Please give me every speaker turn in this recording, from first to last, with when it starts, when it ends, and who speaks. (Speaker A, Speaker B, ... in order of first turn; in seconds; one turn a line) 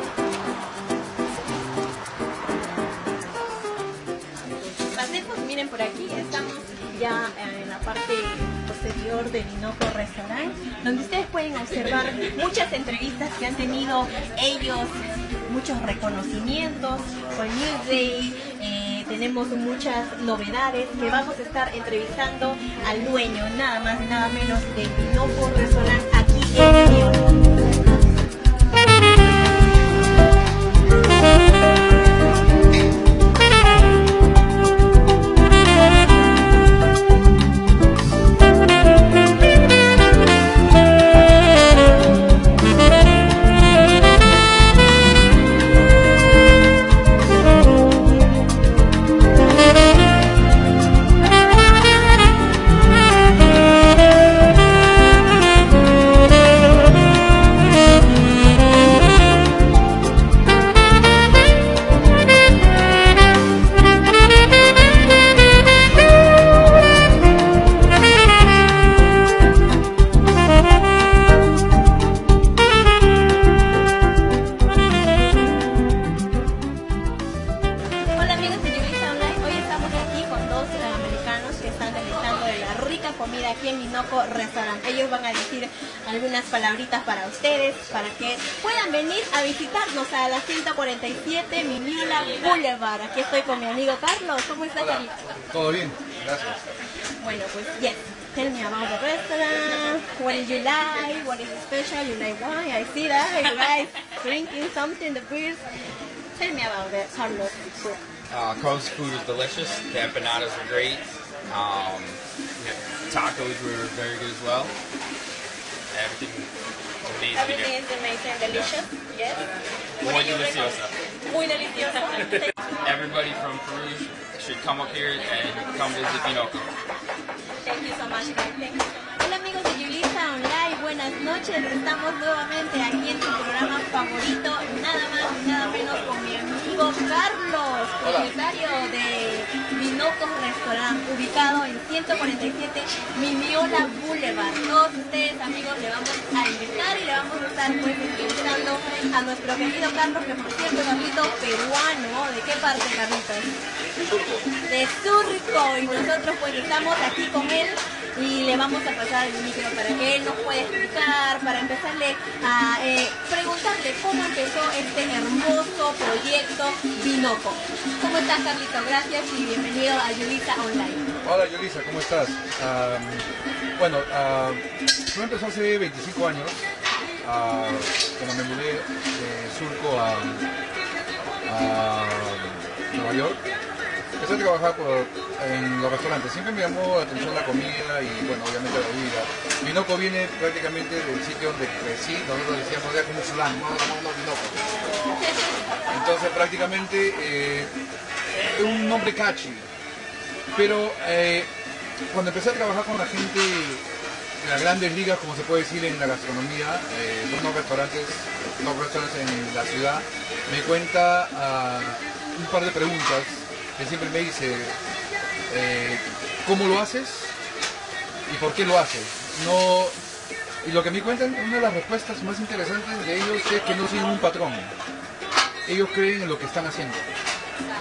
Speaker A: 4.9-27.2
Speaker A: 78.1-95.1
Speaker B: 94.8-96.6
Speaker A: 97.2-105.6
Speaker A: 106.3-108.0
Speaker C: 108.3-114.7
Speaker C: 115.9-116.5
Speaker C: 117.0-117.7
Speaker A: 117.3-119.4
Speaker C: 120.0-120.9
Speaker A: 120.0-122.5
Speaker C: 122.4-126.8
Speaker A: 127.6-153.5
Speaker B: 138.0-138.3
Speaker B: 153.9-154.5
Speaker A: 154.7-171.1
Speaker B: 171.2-176.6
Speaker B: 177.2-180.5
Speaker B: 181.4-183.4
Speaker B: 184.2-194.7
Speaker B: 195.9-197.7
Speaker B: 198.4-199.7
Speaker B: 200.5-201.5
Speaker B: 202.1-203.8
Speaker B: 204.4-214.8
Speaker B: 215.5-217.3
Speaker B: 218.2-219.9
Speaker B: 220.6-224.7
Speaker B: 225.6-227.1